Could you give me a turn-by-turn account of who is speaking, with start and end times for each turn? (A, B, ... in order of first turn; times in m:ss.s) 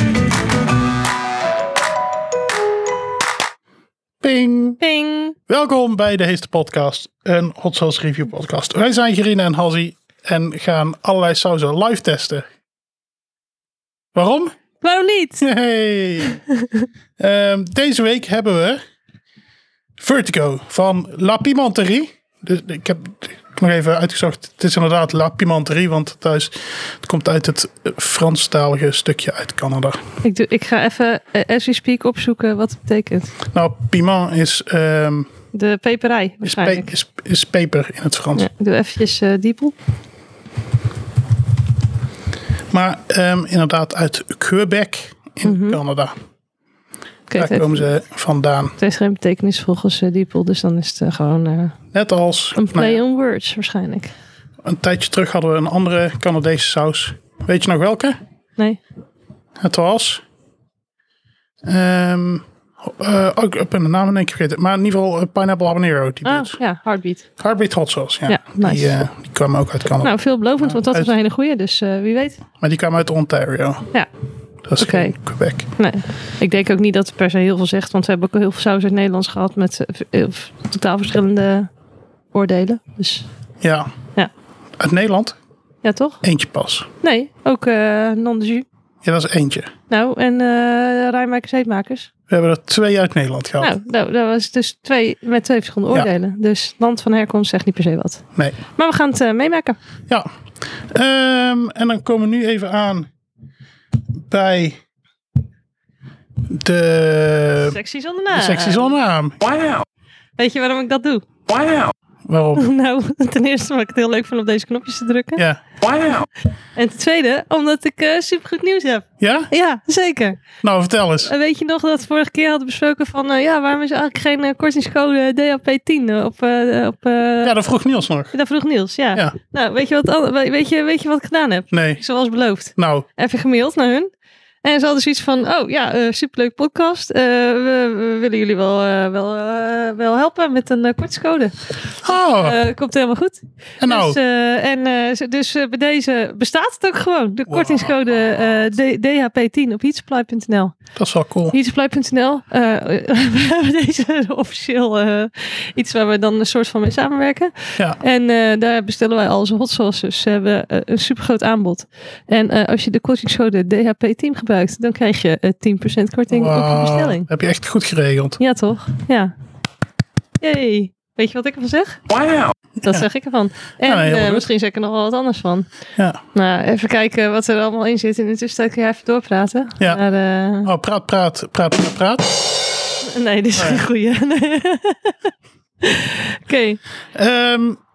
0:04.2-0:04.8 A
0:04.8-0:05.4 B
0:05.5-0:12.5 A
0:14.2-0:14.6 A
0:14.8-0:15.4 B
0:15.4-0:16.4 A
0:17.2-0:18.8 A
0:20.0-0:30.0 A
0:30.2-0:33.4 B
0:33.5-0:35.3 A
0:35.5-0:36.9 B
0:36.4-0:38.5 A
0:38.4-0:39.8 B
0:42.7-0:46.1 A
0:45.4-0:45.8 B
0:47.3-0:47.8 B
0:47.4-0:48.8 A
0:48.8-0:51.8 B
0:51.9-0:53.0 A
0:52.6-0:54.1 B
0:54.6-0:58.2 A
0:59.6-1:00.2 A
1:01.6-1:06.6 A
1:06.2-1:07.2 B
1:07.4-1:11.1 A
1:08.3-1:09.0 B
1:10.0-1:12.4 B
1:12.6-1:13.9 A
1:14.7-1:15.7 A
1:14.8-1:15.1 B
1:15.8-1:21.7 B
1:22.3-1:23.3 B
1:23.6-1:23.9 A
1:24.8-1:25.4 A
1:25.8-1:26.2 B
1:26.2-1:26.9 A
1:27.0-1:28.7 B
1:29.0-1:29.7 A
1:29.9-1:32.1 B
1:32.3-1:33.8 A
1:33.6-1:39.8 B
1:40.8-1:43.1 A
1:44.3-1:44.8 A
1:46.5-1:47.8 A
1:47.7-1:48.9 B
1:48.3-1:49.5 A
1:50.4-1:51.3 B
1:52.3-1:52.7 A
1:52.6-1:55.4 B
1:56.8-2:00.4 B
1:59.2-1:59.5 A
2:00.6-2:01.3 A
2:01.2-2:07.5 B
2:07.4-2:08.3 A
2:08.3-2:14.1 B
2:11.7-2:12.0 A
2:12.8-2:13.1 A
2:14.6-2:30.7 B
2:22.0-2:22.6 A
2:23.8-2:24.2 A
2:27.5-2:28.5 A
2:31.0-2:31.6 A
2:31.5-2:47.3 B
2:46.3-2:48.4 A
2:48.4-2:49.3 B
2:50.4-2:52.0 B
2:52.8-2:53.1 A
2:52.8-2:55.7 B
2:53.8-2:54.4 A
2:56.3-3:00.7 B
3:00.6-3:02.4 A
3:03.0-3:05.2 B
3:03.6-3:03.8 A
3:05.8-3:06.8 B
3:07.1-3:07.8 A